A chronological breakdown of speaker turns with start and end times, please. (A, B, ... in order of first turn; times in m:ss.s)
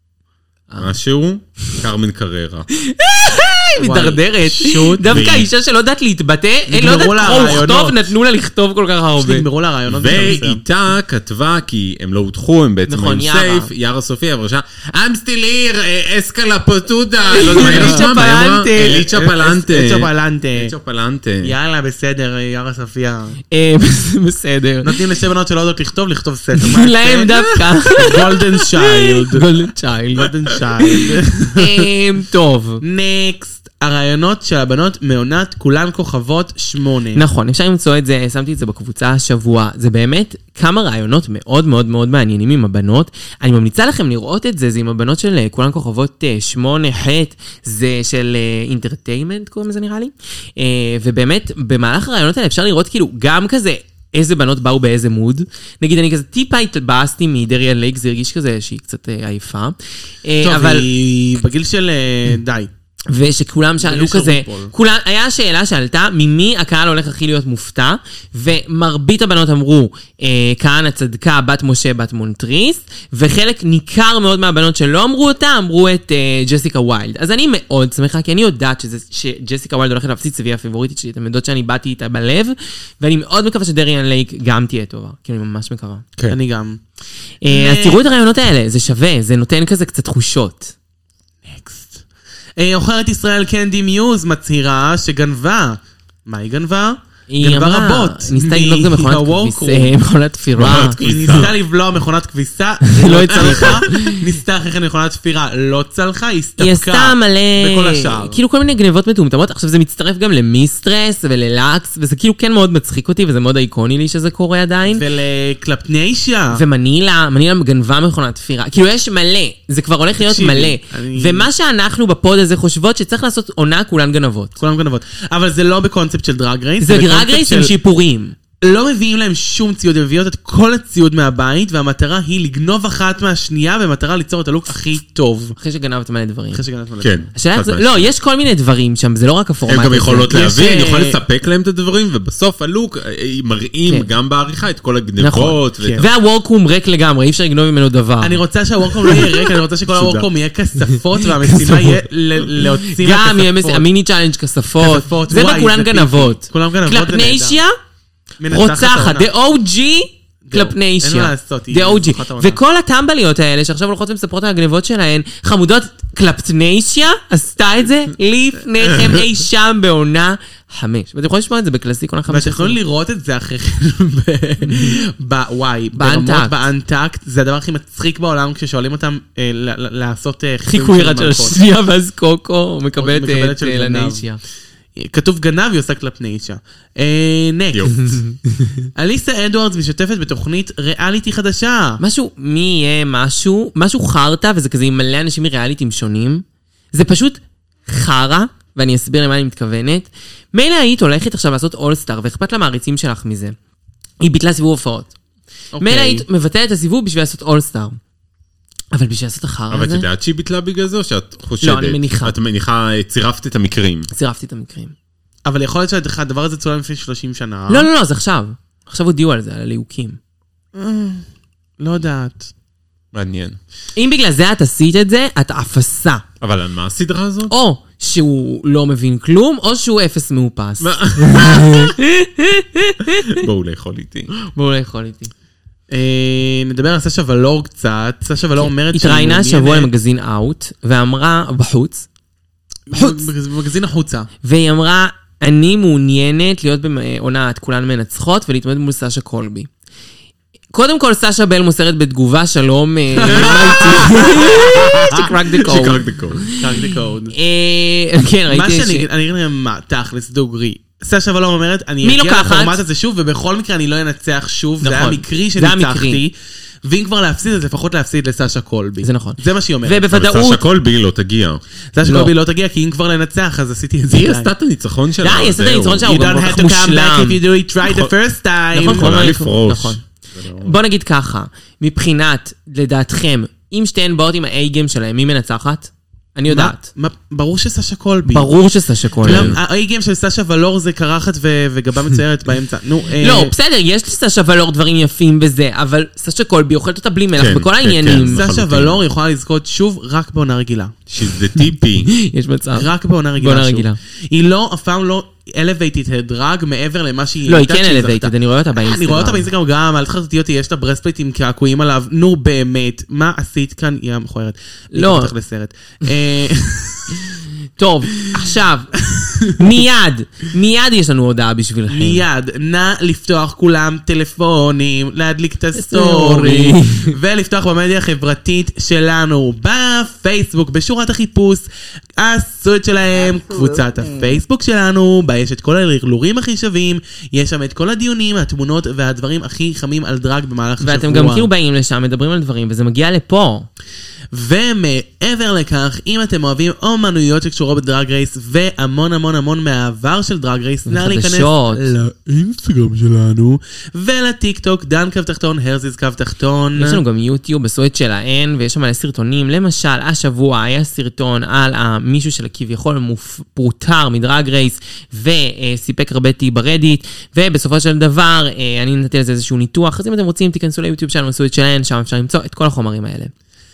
0:00.8-0:02.7 A
0:02.7-0:09.4 B
0:03.8-0:05.4 C
0:05.0-0:05.5 A
0:06.7-0:08.1 C
0:09.2-0:10.6 C
0:09.9-0:21.5 A
0:12.9-0:13.7 B
0:17.3-0:19.0 B
0:17.6-0:18.1 C
0:18.8-0:20.7 C
0:21.4-0:23.4 C
0:23.5-0:25.0 B
0:24.8-0:29.5 C
0:26.6-0:32.8 B
0:30.2-0:31.9 C
0:32.8-0:37.2 C
0:37.1-1:00.9 B
1:00.4-1:02.7 C
1:03.1-1:26.0 B
1:03.8-1:04.7 C
1:26.3-1:26.8 C
1:27.4-1:30.7 B
1:27.5-1:28.0 C
1:31.4-1:32.0 C
1:32.6-1:39.9 C
1:37.3-1:41.0 B
1:40.6-1:41.5 A
1:40.7-1:48.4 C
1:42.9-1:44.2 B
1:43.3-1:43.9 A
1:46.6-1:55.0 B
1:54.9-1:56.6 C
1:56.5-2:04.6 B
2:00.2-2:01.5 C
2:04.6-2:07.7 C
2:06.8-2:08.4 B
2:08.6-2:15.6 C
2:15.6-2:16.6 B
2:16.5-2:17.2 C
2:17.0-2:18.1 A
2:17.3-2:20.5 B
2:19.7-2:26.1 A
2:20.3-2:21.2 C
2:25.2-2:28.4 B
2:28.2-2:33.9 C
2:29.1-2:29.4 B
2:29.9-2:30.3 A
2:31.2-2:32.0 B
2:32.6-2:37.7 B
2:34.8-2:37.6 C
2:38.4-2:39.3 C
2:38.5-2:52.8 B
2:40.4-2:42.6 C
2:52.3-3:01.6 C
2:54.7-2:55.0 B
2:56.0-2:56.6 B
3:00.7-3:04.4 B
3:03.0-3:04.2 C
3:05.0-3:07.9 C
3:07.9-3:08.8 B
3:08.9-3:12.0 C
3:12.0-3:23.6 B
3:24.2-3:25.1 B
3:25.7-3:26.2 C
3:25.8-3:28.0 B
3:28.9-3:30.1 B
3:29.7-3:34.1 A
3:31.6-3:32.3 B
3:34.1-3:34.9 B
3:35.4-3:37.9 C
3:37.7-3:40.2 B
3:40.7-3:41.2 C
3:41.8-3:42.5 C
3:43.1-3:43.6 A
3:44.0-3:46.2 B
3:46.4-3:47.5 A
3:47.5-3:53.4 B
3:50.8-3:51.9 A
3:53.3-3:54.3 A
3:54.5-3:55.3 B
3:55.9-3:59.9 C
3:58.6-4:02.1 B
4:02.9-4:04.3 C
4:02.9-4:03.3 B
4:04.4-4:09.7 B
4:10.7-4:19.1 B
4:13.2-4:15.1 C
4:14.6-4:16.4 A
4:16.5-4:17.4 C
4:18.5-4:26.3 C
4:22.0-4:22.8 B
4:24.8-4:26.2 B
4:26.8-4:30.1 C
4:29.0-4:30.6 B
4:30.1-4:31.6 A
4:31.9-4:34.5 C
4:32.0-4:32.3 B
4:34.1-4:36.1 A
4:35.2-4:37.4 B
4:36.0-4:39.2 C
4:37.8-4:38.1 A
4:38.7-4:40.0 B
4:38.8-4:40.8 A
4:40.6-4:46.8 B
4:46.5-4:48.5 C
4:48.3-4:49.5 B
4:49.2-4:49.6 A
4:49.2-4:53.5 C
4:53.2-4:58.4 B
4:57.4-4:59.0 A
4:58.3-5:01.0 C
5:01.1-5:02.1 A
5:02.0-5:02.9 B
5:02.7-5:17.2 C
5:03.4-5:04.0 B
5:07.5-5:09.4 B
5:14.9-5:15.3 B
5:17.8-5:22.2 B
5:19.1-5:19.5 C
5:21.9-5:31.6 C
5:25.7-5:27.1 B
5:32.2-5:41.5 C
5:40.8-5:43.7 B
5:44.3-5:57.0 C
5:50.8-5:51.9 B
5:56.8-6:13.3 B